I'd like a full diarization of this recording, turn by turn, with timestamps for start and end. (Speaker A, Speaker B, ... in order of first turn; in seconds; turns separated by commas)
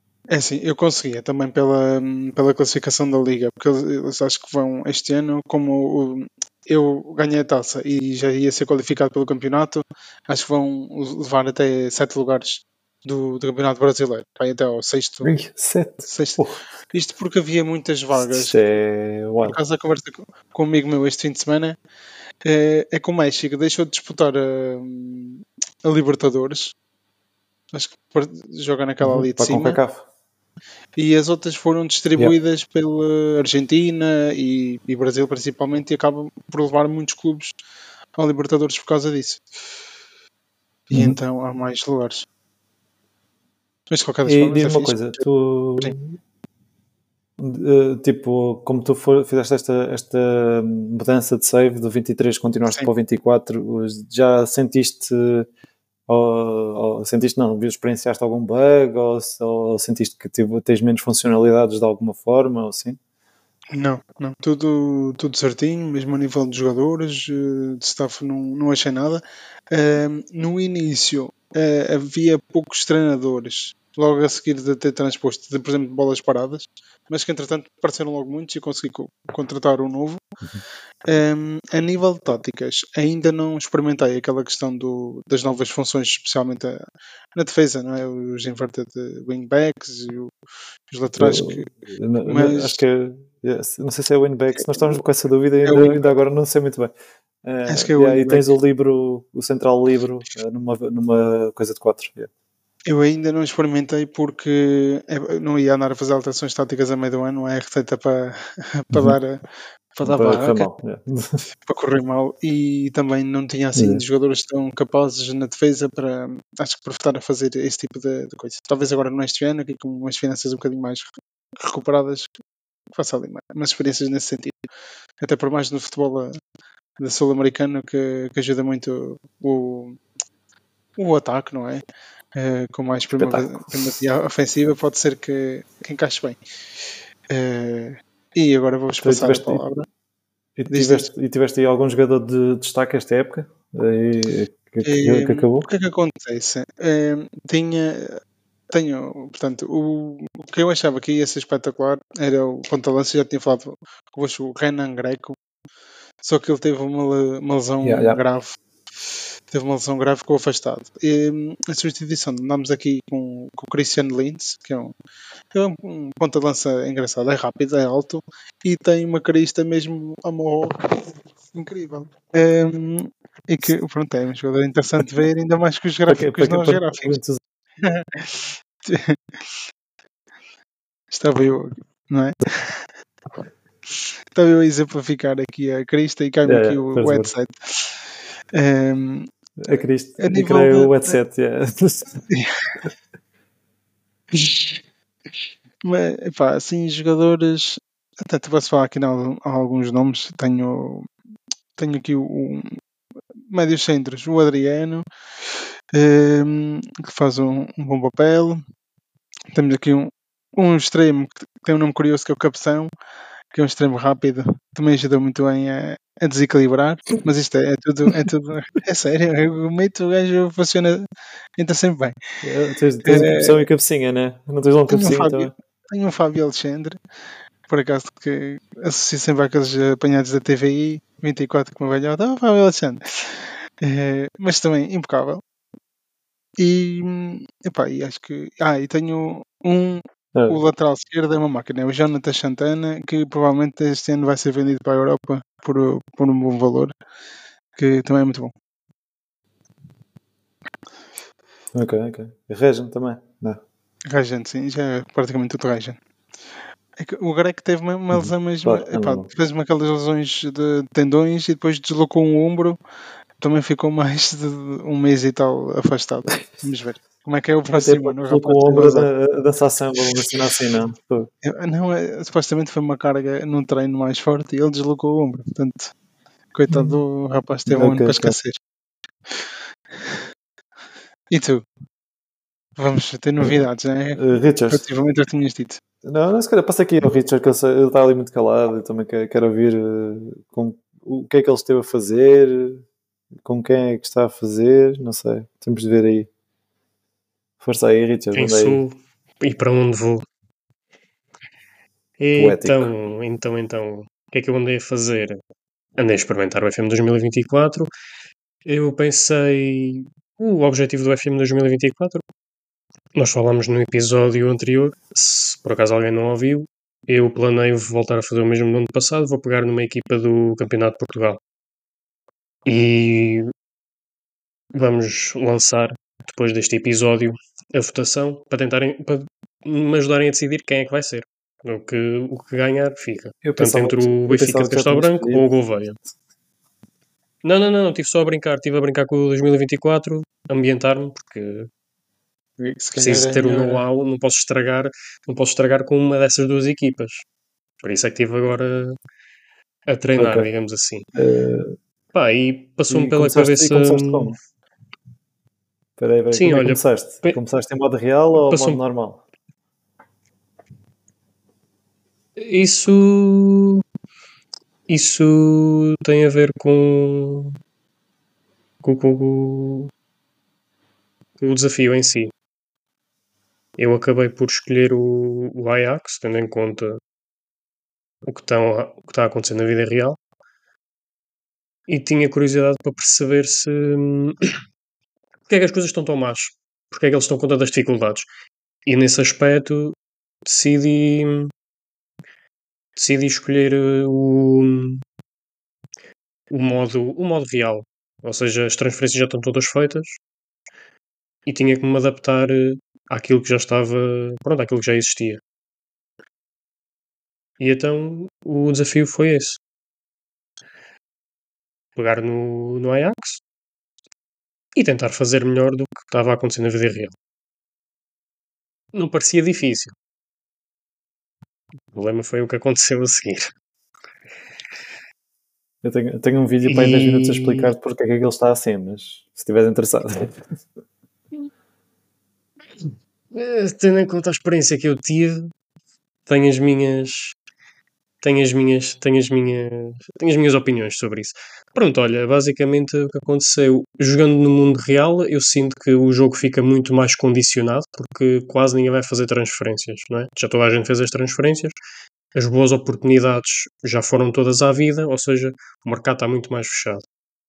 Speaker A: 0.3-15.3, Speaker B: 15.2-16.6, Speaker A: 16.0-16.4, Speaker A: 16.9-18.6, Speaker B: 18.1-19.6, Speaker A: 19.4-21.8, Speaker A: 22.4-26.7, Speaker A: 27.7-29.8, Speaker B: 29.0-30.1, Speaker A: 31.0-37.5, Speaker A: 38.2-39.4, Speaker A: 40.9-42.2, Speaker B: 40.9-41.2, Speaker A: 43.9-45.2, Speaker B: 44.2-46.0, Speaker B: 47.4-55.5, Speaker B: 56.1-63.0, Speaker A: 63.7-80.2, Speaker A: 81.1-86.8, Speaker A: 87.3-90.3, Speaker A: 90.9-91.7, Speaker B: 91.2-96.9, Speaker A: 92.2-92.8, Speaker A: 95.7-96.0, Speaker B: 97.4-102.3, Speaker A: 97.7-98.5, Speaker A: 102.9-109.4, Speaker A: 109.9-110.7, Speaker B: 110.0-111.4, Speaker A: 111.7-122.3, Speaker B: 113.8-114.0, Speaker A: 123.0-124.6, Speaker A: 125.2-126.3, Speaker A: 127.0-130.0, Speaker A: 131.0-131.8, Speaker A: 132.3-136.4, Speaker B: 133.2-133.9, Speaker A: 137.3-139.8, Speaker B: 139.0-139.6, Speaker B: 140.6-145.7, Speaker A: 140.7-141.1, Speaker A: 144.8-148.2, Speaker A: 148.7-155.3, Speaker A: 156.2-158.6, Speaker B: 157.8-158.2, Speaker A: 159.5-164.9, Speaker A: 165.5-177.2, Speaker B: 176.1-177.4, Speaker A: 177.8-179.2, Speaker A: 181.1-182.8, Speaker A: 184.3-188.0, Speaker B: 186.4-187.3, Speaker A: 188.5-189.3, Speaker B: 189.6-192.2, Speaker A: 190.2-191.2, Speaker A: 194.3-194.8, Speaker A: 195.8-201.1, Speaker A: 201.8-202.8, Speaker A: 203.5-205.0, Speaker A: 205.9-208.6, Speaker A: 209.5-212.9, Speaker A: 213.5-221.0, Speaker A: 221.6-222.1, Speaker B: 222.4-225.5, Speaker A: 223.0-223.6, Speaker A: 224.9-227.0, Speaker A: 227.7-235.4, Speaker A: 236.6-246.9, Speaker B: 240.3-240.6, Speaker A: 247.8-248.5, Speaker B: 251.7-253.6, Speaker A: 254.1-256.0, Speaker A: 257.0-262.8, Speaker B: 258.1-259.3, Speaker A: 263.4-269.1, Speaker B: 267.7-271.3, Speaker A: 271.4-275.9, Speaker A: 276.5-278.6, Speaker B: 276.7-277.0, Speaker B: 277.7-278.3, Speaker A: 281.3-281.6, Speaker A: 282.8-285.8, Speaker B: 284.1-284.8, Speaker B: 286.0-292.8, Speaker B: 293.4-296.3, Speaker B: 297.6-298.8, Speaker C: 298.3-300.2, Speaker C: 302.2-305.4, Speaker B: 302.4-302.9, Speaker C: 306.0-307.9, Speaker C: 308.6-312.2, Speaker C: 313.1-321.4, Speaker C: 322.6-323.5, Speaker C: 324.7-336.0, Speaker B: 333.4-335.4, Speaker C: 337.4-341.7, Speaker A: 342.6-343.9, Speaker C: 343.0-347.2, Speaker C: 347.8-349.0, Speaker C: 349.9-351.1, Speaker B: 350.2-350.5, Speaker B: 351.1-351.8, Speaker C: 352.1-354.3, Speaker B: 352.9-354.4, Speaker B: 356.0-359.2, Speaker C: 356.3-357.4, Speaker C: 358.5-358.8, Speaker C: 362.4-363.8, Speaker C: 364.9-367.6, Speaker C: 368.8-369.9, Speaker C: 371.4-372.3, Speaker C: 373.8-377.0, Speaker C: 378.2-380.2, Speaker C: 381.9-384.6, Speaker C: 385.5-388.3, Speaker C: 388.9-391.5, Speaker C: 393.0-395.0, Speaker C: 396.5-400.2, Speaker C: 401.5-405.4, Speaker C: 407.6-409.6, Speaker C: 412.0-413.4, Speaker C: 414.8-417.1, Speaker C: 418.9-419.9, Speaker C: 421.9-423.5, Speaker B: 425.8-430.5, Speaker C: 426.6-427.7, Speaker C: 432.8-435.5, Speaker C: 436.3-437.4, Speaker C: 438.2-451.8, Speaker C: 452.4-457.0